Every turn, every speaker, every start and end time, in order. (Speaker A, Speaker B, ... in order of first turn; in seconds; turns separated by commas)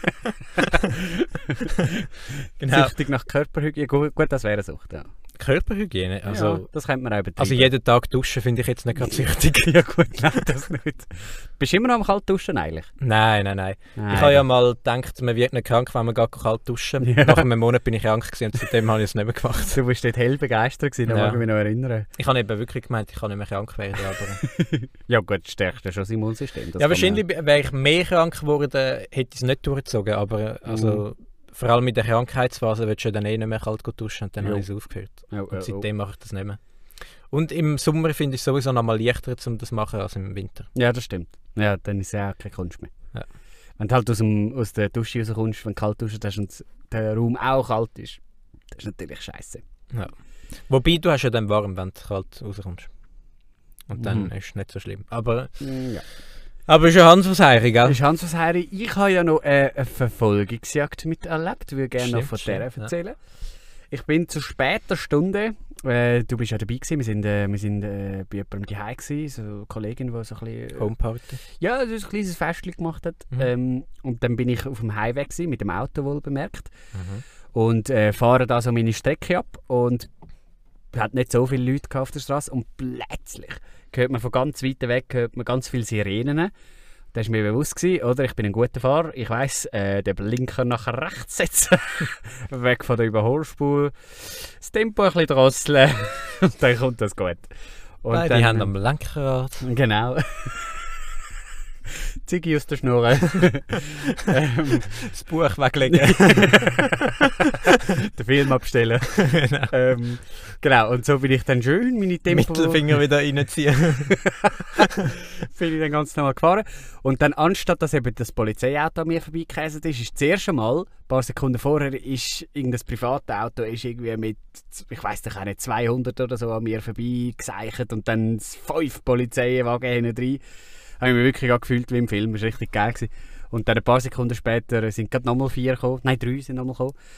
Speaker A: 0.6-0.9, Speaker B: 0.8-2.0, Speaker A: 2.6-2.9, Speaker B: 2.7-5.0, Speaker A: 5.3-6.6, Speaker B: 6.3-7.7, Speaker A: 7.4-9.7, Speaker B: 9.1-12.9, Speaker A: 13.0-19.8, Speaker B: 14.0-14.4, Speaker B: 17.0-17.4, Speaker B: 19.7-22.1, Speaker A: 21.1-21.4, Speaker A: 22.2-24.4, Speaker B: 24.5-27.2, Speaker A: 26.8-36.6, Speaker B: 30.6-31.0, Speaker B: 34.4-35.9, Speaker A: 37.3-40.7, Speaker B: 40.7-42.9, Speaker B: 43.8-48.2, Speaker B: 48.7-49.6, Speaker A: 50.7-52.9, Speaker A: 53.9-55.6, Speaker B: 54.0-54.3, Speaker B: 55.6-56.0, Speaker A: 56.7-58.0, Speaker B: 57.8-63.1, Speaker A: 62.0-62.9, Speaker B: 63.9-70.9, Speaker A: 70.8-71.4, Speaker B: 71.4-76.7, Speaker A: 76.9-77.2, Speaker B: 77.5-80.1, Speaker B: 80.9-86.5, Speaker B: 87.1-97.5, Speaker B: 98.0-98.7, Speaker A: 98.1-99.6, Speaker B: 99.6-100.8, Speaker B: 102.2-105.0, Speaker A: 104.9-107.8, Speaker B: 105.9-106.9, Speaker B: 107.9-112.9, Speaker A: 109.1-109.7, Speaker A: 112.3-114.2, Speaker B: 114.1-130.4, Speaker B: 131.0-136.9